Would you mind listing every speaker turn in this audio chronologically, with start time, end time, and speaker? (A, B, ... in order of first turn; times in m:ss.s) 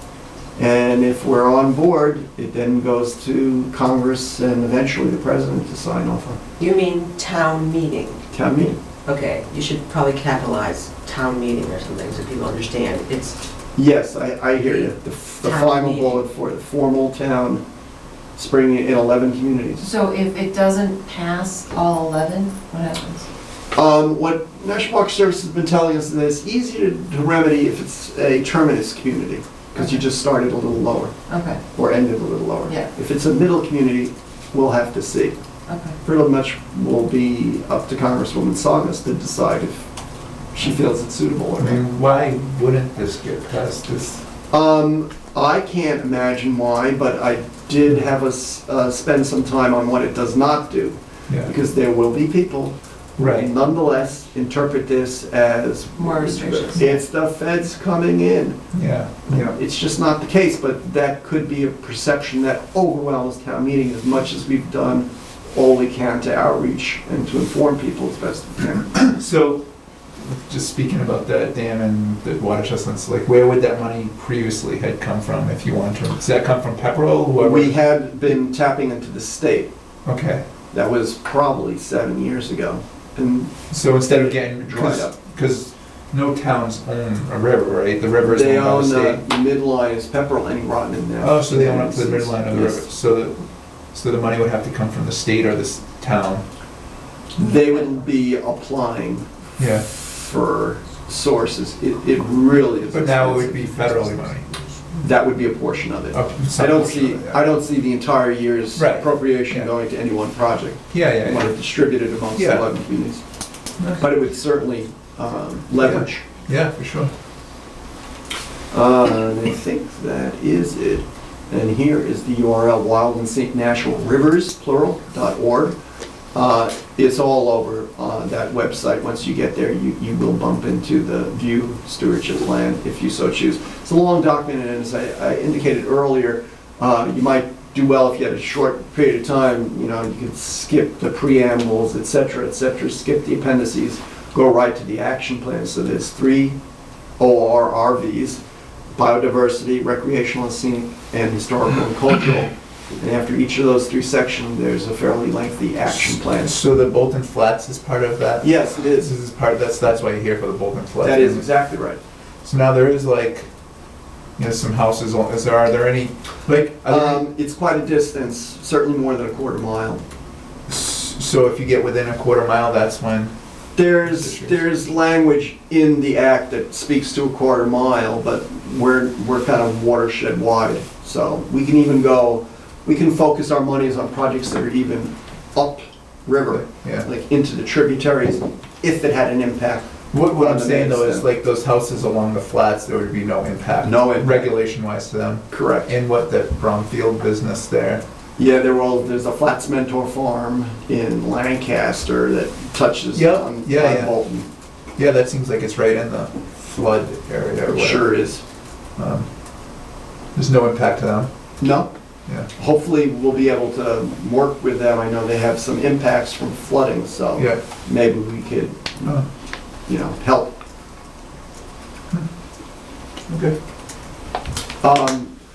0:00.6-0:06.4 A
0:06.6-0:08.2 B
0:08.3-0:08.8 A
0:09.0-0:13.4 B
0:13.8-0:17.6 A
0:15.4-0:16.2 B
0:18.4-0:19.9 A
0:19.8-0:23.3 C
0:23.7-0:31.2 A
0:31.3-0:31.6 C
0:31.7-0:35.4 A
0:35.7-0:36.0 C
0:36.0-0:39.9 A
0:40.5-0:41.8 A
0:41.6-0:44.2 D
0:44.5-0:58.6 A
0:53.2-0:53.5 D
0:56.0-0:57.0 C
0:58.7-0:59.6 D
0:59.3-1:09.0 A
1:08.9-1:09.6 D
1:10.2-1:17.8 D
1:17.4-1:19.7 A
1:20.0-1:20.4 D
1:20.7-1:25.2 A
1:23.7-1:29.2 D
1:28.2-1:32.9 A
1:31.2-1:36.4 D
1:37.4-1:39.3 A
1:39.6-1:39.9 D
1:39.8-1:43.6 A
1:42.9-1:44.5 D
1:45.0-1:53.2 A
1:46.1-1:47.4 D
1:48.8-1:49.7 D
1:50.9-1:51.6 D
1:52.3-1:52.6 D
1:53.8-1:54.0 D
1:54.0-1:56.2 A
1:55.8-1:57.1 D
1:58.7-2:05.7 A
2:06.3-2:26.6 A
2:27.2-2:28.4 A
2:29.0-2:36.6 A
2:36.4-2:41.5 D
2:38.4-2:39.1 A
2:41.0-2:42.0 A
2:42.4-2:43.5 D
2:44.4-2:47.2 D
2:46.9-2:50.0 A
2:50.7-2:53.3 D
2:53.8-3:11.3 A
2:54.0-2:54.6 D
3:06.5-3:07.1 D
3:10.1-3:18.0 D
3:13.8-3:14.5 A
3:15.5-3:15.9 A
3:18.4-3:24.4 A
3:23.1-3:24.2 D
3:25.0-3:28.2 D
3:27.7-3:28.4 A
3:29.0-3:29.3 D
3:30.3-3:31.3 D
3:31.6-3:31.9 A
3:32.5-3:39.2 A
3:39.8-3:40.5 A
3:43.3-3:43.6 D
3:44.8-3:45.3 A